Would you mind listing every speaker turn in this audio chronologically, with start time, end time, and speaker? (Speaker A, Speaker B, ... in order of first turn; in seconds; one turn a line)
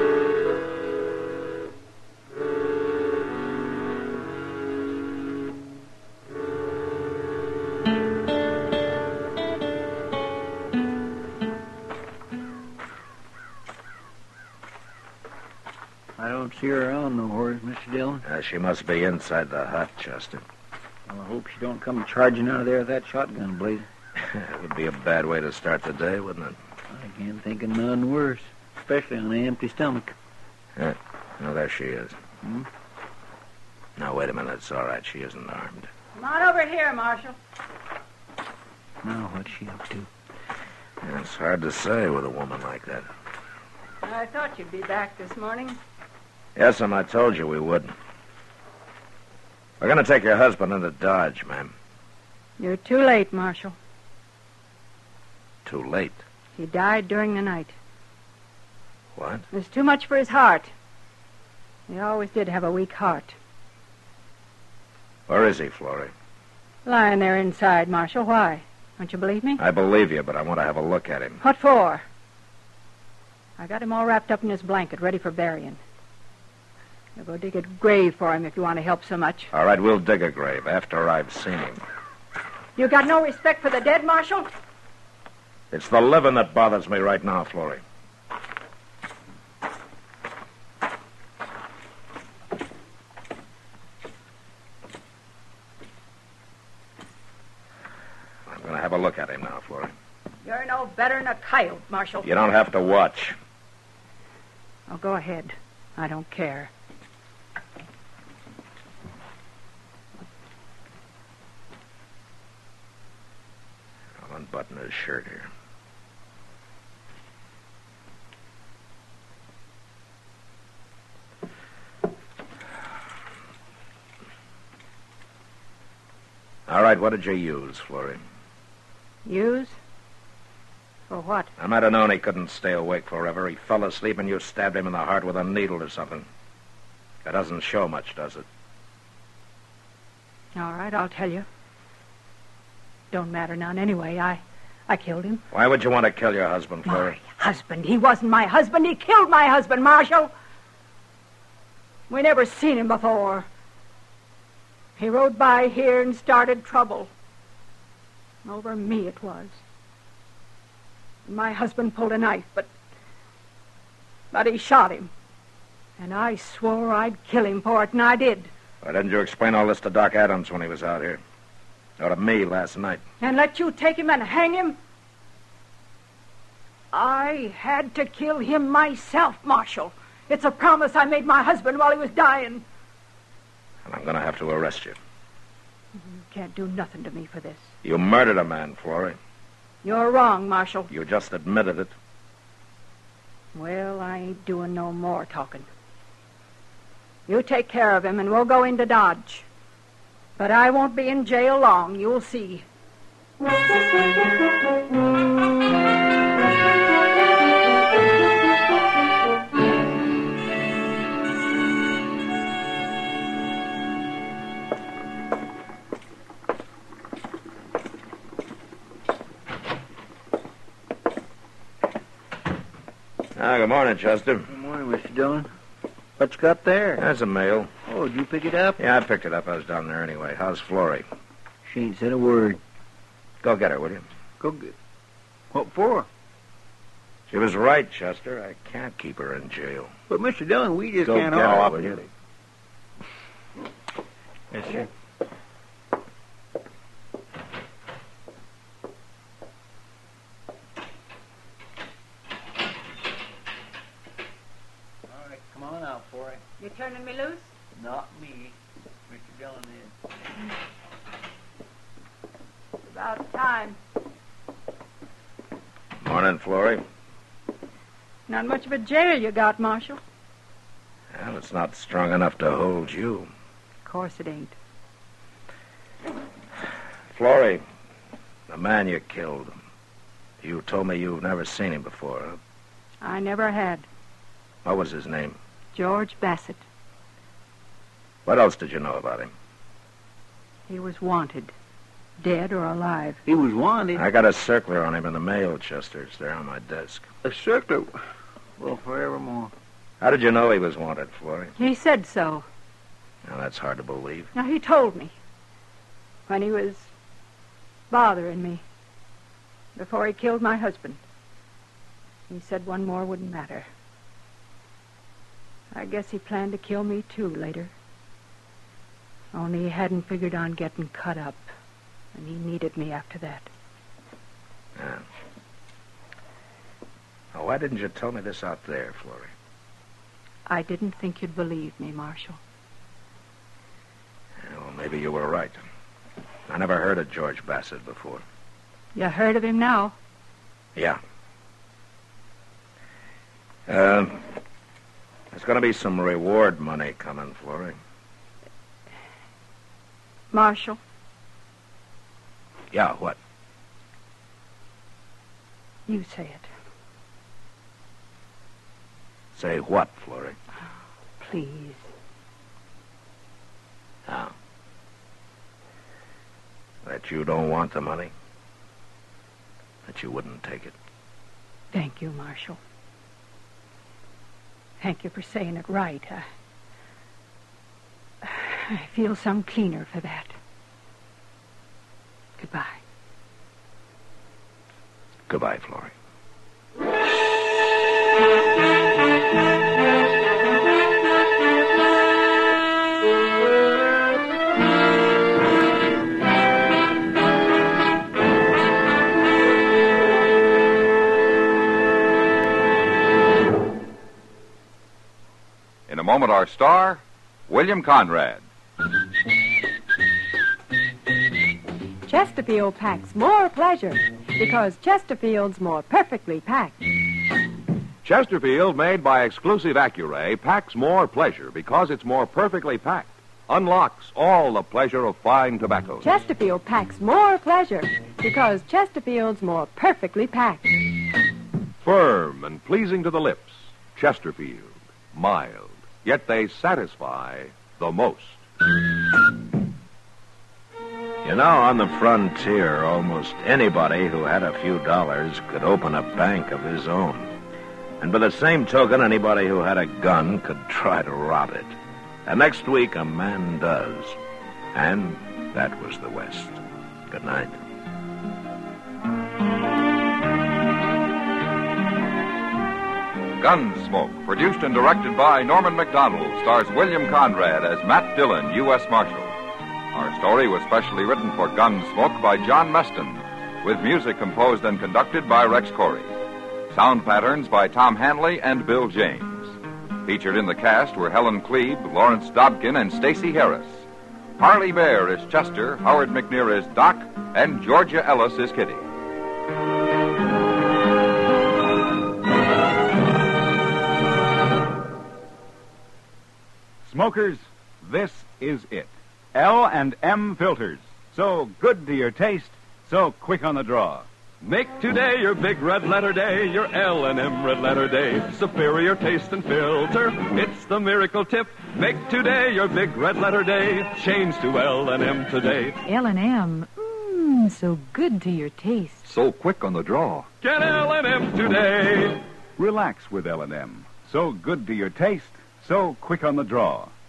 Speaker A: 16.2-18.2
Speaker B: 18.2-20.4
Speaker A: 21.1-23.9
Speaker B: 24.2-26.6
Speaker A: 26.9-30.1
Speaker B: 30.8-32.2
Speaker B: 34.0-35.9
Speaker C: 36.1-37.4
Speaker A: 39.0-40.1
Speaker B: 41.0-43.1
Speaker C: 44.0-45.8
Speaker B: 46.5-47.9
Speaker B: 49.8-51.7
Speaker C: 52.6-53.8
Speaker B: 55.6-56.2
Speaker C: 56.5-57.8
Speaker B: 59.1-59.5
Speaker C: 59.5-60.7
Speaker C: 61.9-63.4
Speaker B: 65.3-66.1
Speaker C: 66.8-69.6
Speaker B: 69.6-71.4
Speaker C: 71.4-72.0
Speaker C: 73.6-75.8
Speaker C: 77.2-79.5
Speaker B: 79.5-81.8
Speaker C: 82.8-84.5
Speaker B: 85.7-87.8
Speaker B: 98.5-99.9
Speaker C: 100.4-102.3
Speaker B: 102.2-103.4
Speaker C: 104.9-106.7
Speaker B: 114.2-115.5
Speaker B: 126.7-128.2
Speaker C: 129.2-129.8
Speaker C: 131.1-131.5
Speaker B: 131.6-136.3
Speaker B: 137.2-138.4
Speaker C: 140.6-141.4
Speaker C: 143.1-145.4
Speaker B: 145.5-147.2
Speaker C: 146.8-150.3
Speaker C: 152.1-153.5
Speaker C: 155.0-157.1
Speaker C: 158.4-159.6
Speaker C: 161.2-162.7
Speaker C: 164.3-165.1
Speaker C: 166.0-168.5
Speaker B: 168.8-171.2
Speaker B: 172.0-173.0
Speaker C: 173.2-174.8
Speaker C: 176.9-182.6
Speaker B: 183.8-185.0
Speaker C: 185.9-187.7
Speaker B: 187.8-189.2
Speaker C: 189.8-190.9
Speaker B: 190.9-191.9
Speaker C: 193.5-195.7
Speaker C: 197.3-199.4
Speaker C: 200.4-202.6
Speaker B: 223.3-224.5
Speaker A: 224.5-225.5
Speaker A: 226.2-227.0
Speaker B: 227.0-227.7
Speaker A: 227.9-228.8
Speaker B: 228.8-231.1
Speaker A: 231.6-232.6
Speaker B: 233.4-234.1
Speaker A: 234.4-234.7
Speaker A: 235.5-236.1
Speaker B: 237.3-239.9
Speaker A: 240.1-242.0
Speaker B: 241.0-242.1
Speaker A: 244.5-244.9
Speaker A: 255.1-256.4
Speaker C: 256.6-257.5
Speaker A: 257.8-258.6
Speaker A: 259.1-259.9
Speaker C: 262.8-263.8
Speaker B: 266.0-266.8
Speaker C: 268.3-270.0
Speaker B: 271.1-273.3
Speaker C: 273.8-274.5
Speaker B: 277.1-277.6
Speaker B: 278.5-279.6
Speaker B: 280.4-282.4
Speaker C: 283.0-283.9
Speaker B: 284.6-285.4
Speaker C: 285.7-286.6
Speaker B: 288.2-289.3
Speaker C: 290.7-291.5
Speaker C: 292.2-293.2
Speaker A: 293.2-294.0
Speaker B: 294.0-297.1
Speaker A: 297.2-297.9
Speaker A: 298.6-299.5
Speaker B: 300.0-301.5
Speaker C: 301.6-302.4
Speaker B: 303.2-304.3
Speaker C: 304.3-305.1
Speaker C: 306.3-306.9
Speaker C: 307.9-308.6
Speaker C: 309.7-311.0
Speaker C: 312.3-313.7
Speaker C: 315.7-317.7
Speaker C: 319.3-321.4
Speaker C: 322.1-323.5
Speaker B: 324.8-325.0
Speaker B: 327.3-329.3
Speaker C: 330.5-332.4
Speaker B: 334.4-335.6
Speaker B: 336.5-338.2
Speaker C: 338.9-339.9
Speaker B: 340.7-341.0
Speaker B: 343.7-344.3
Speaker B: 345.3-347.8
Speaker C: 350.3-350.8
Speaker B: 352.7-353.2
Speaker C: 355.9-356.5
Speaker B: 359.3-360.4
Speaker C: 361.2-361.9
Speaker B: 364.1-364.3
Speaker B: 366.8-368.1
Speaker B: 369.8-370.7
Speaker C: 371.7-372.6
Speaker C: 374.8-376.2
Speaker C: 378.2-380.4
Speaker C: 382.4-382.8
Speaker B: 385.3-385.9
Speaker D: 405.9-408.4
Speaker E: 412.1-416.8
Speaker F: 418.0-426.1
Speaker E: 426.0-430.8
Speaker F: 431.8-438.4
Speaker B: 441.2-447.3
Speaker B: 448.0-454.2
Speaker B: 454.7-457.6
Speaker D: 463.4-469.4
Speaker D: 469.9-476.1
Speaker D: 476.7-483.9
Speaker D: 484.4-488.8
Speaker G: 496.8-504.1
Speaker H: 504.4-515.8
Speaker I: 515.8-519.1
Speaker D: 519.0-520.3
Speaker H: 520.4-522.2
Speaker G: 522.6-526.9